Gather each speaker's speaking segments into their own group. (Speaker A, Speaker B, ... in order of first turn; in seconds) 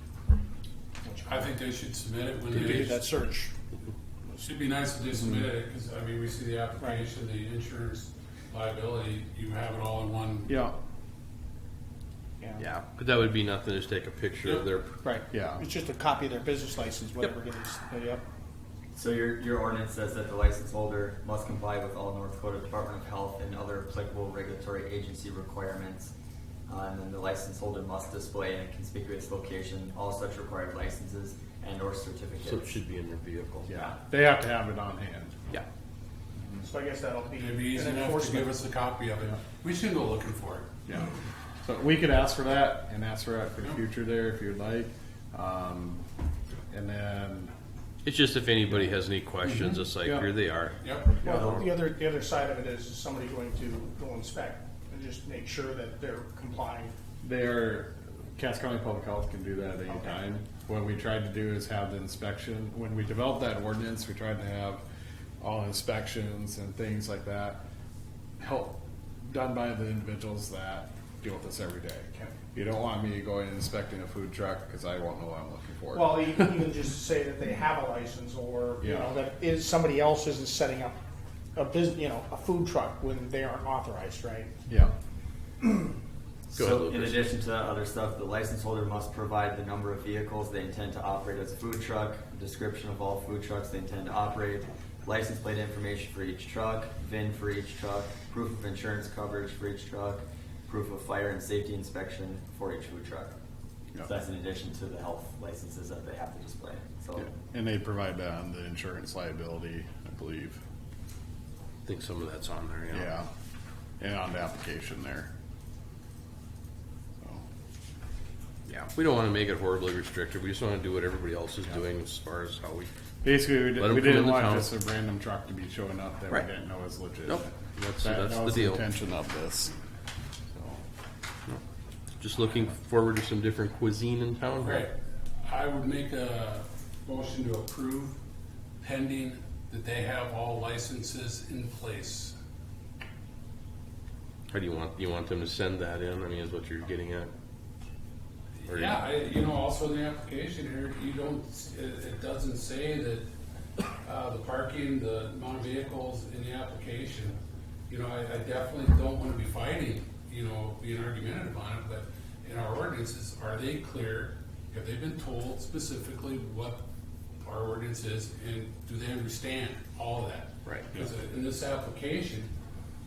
Speaker A: 1.0-1.5, 2.5-3.5, 15.0-18.2, 36.6-38.5, 51.2-56.9, 75.9-81.0, 81.5-84.5
Speaker B: 1.2-3.0, 4.4-10.5, 37.4-40.7, 49.5-49.8, 50.8-51.2, 134.6-138.2, 138.8-142.3, 148.6-153.2, 154.0-166.8, 167.4-172.5
Speaker C: 10.5-10.8, 15.3-15.6, 33.7-35.4, 40.9-41.1, 41.6-46.0, 46.7-47.5, 57.2-64.8, 65.4-67.6, 68.4-76.6, 78.8-79.1, 84.7-84.9, 107.2-110.6, 112.9-113.3, 114.0-115.3, 123.2-129.7, 130.5-130.8
Speaker D: 12.6-14.9, 32.4-33.7, 48.0-51.6, 86.5-87.2, 111.8-113.1, 118.7-122.9, 123.7-124.7, 127.2-128.8, 132.2-134.9, 144.5-147.3, 148.6-149.1, 170.6-171.0
Speaker E: 18.9-26.1, 26.7-32.8, 51.2-51.5, 86.5-103.3, 104.0-107.3